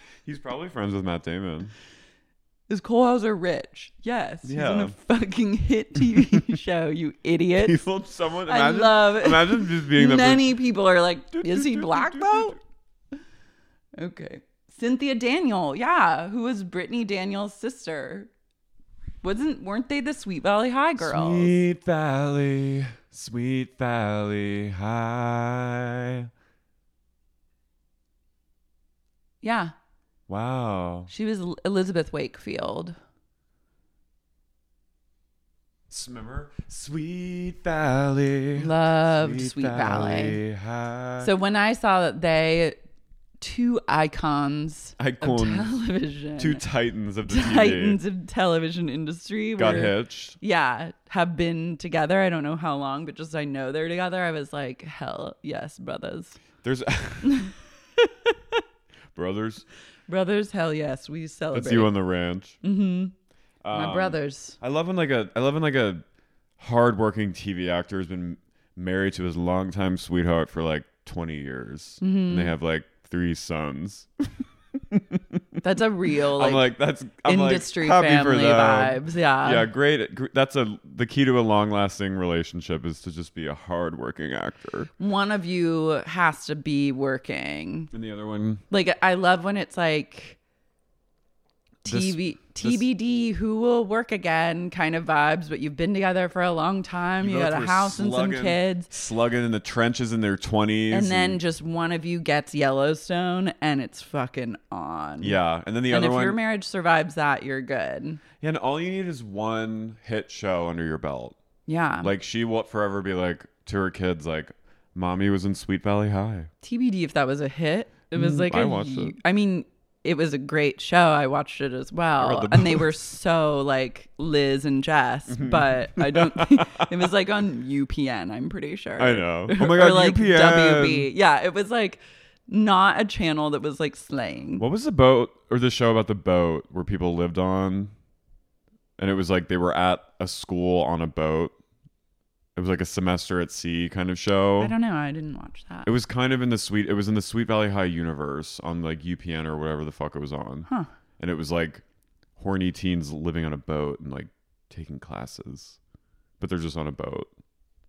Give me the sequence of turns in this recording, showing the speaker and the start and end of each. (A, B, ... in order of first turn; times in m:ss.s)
0:00.2-0:01.7 A
0:02.7-0:07.8 B
0:04.4-0:05.0 A
0:07.6-0:10.6 A
0:08.5-0:12.6 B
0:11.3-0:12.6 A
0:14.0-0:18.3 B
0:19.2-0:21.5 B
0:21.0-0:26.3 A
0:29.4-0:29.7 B
0:30.3-0:31.1 A
0:31.1-0:33.0 B
0:35.9-0:41.3 A
0:38.6-0:40.4 B
0:41.2-0:42.8 B
0:43.4-0:46.6 B
0:45.0-0:45.8 A
0:46.4-0:48.0 A
0:47.3-0:56.4 B
0:49.6-0:50.4 A
0:56.6-0:57.5 A
0:57.2-0:58.6 B
0:59.1-0:59.6 A
1:00.1-1:02.0 B
1:01.5-1:02.6 A
1:02.6-1:03.1 B
1:03.6-1:06.0 A
1:03.7-1:04.6 B
1:06.6-1:15.6 A
1:12.0-1:12.5 B
1:15.6-1:16.7 B
1:16.4-1:24.9 A
1:17.2-1:19.7 B
1:25.0-1:27.9 B
1:27.9-1:28.6 A
1:28.7-1:30.4 B
1:31.8-1:38.9 B
1:31.8-1:32.9 A
1:37.2-1:41.4 A
1:40.9-1:48.2 B
1:45.2-1:46.4 A
1:48.4-1:51.4 A
1:51.7-1:52.1 B
1:52.0-1:56.5 A
1:56.6-2:14.6 B
1:58.1-1:59.2 A
2:02.2-2:02.9 A
2:05.3-2:07.0 A
2:09.0-2:11.1 A
2:14.6-2:17.9 A
2:19.0-2:21.5 A
2:22.6-2:24.7 A
2:24.6-2:25.9 B
2:25.8-2:30.7 A
2:31.2-2:31.8 A
2:32.4-2:35.8 A
2:36.4-2:37.3 A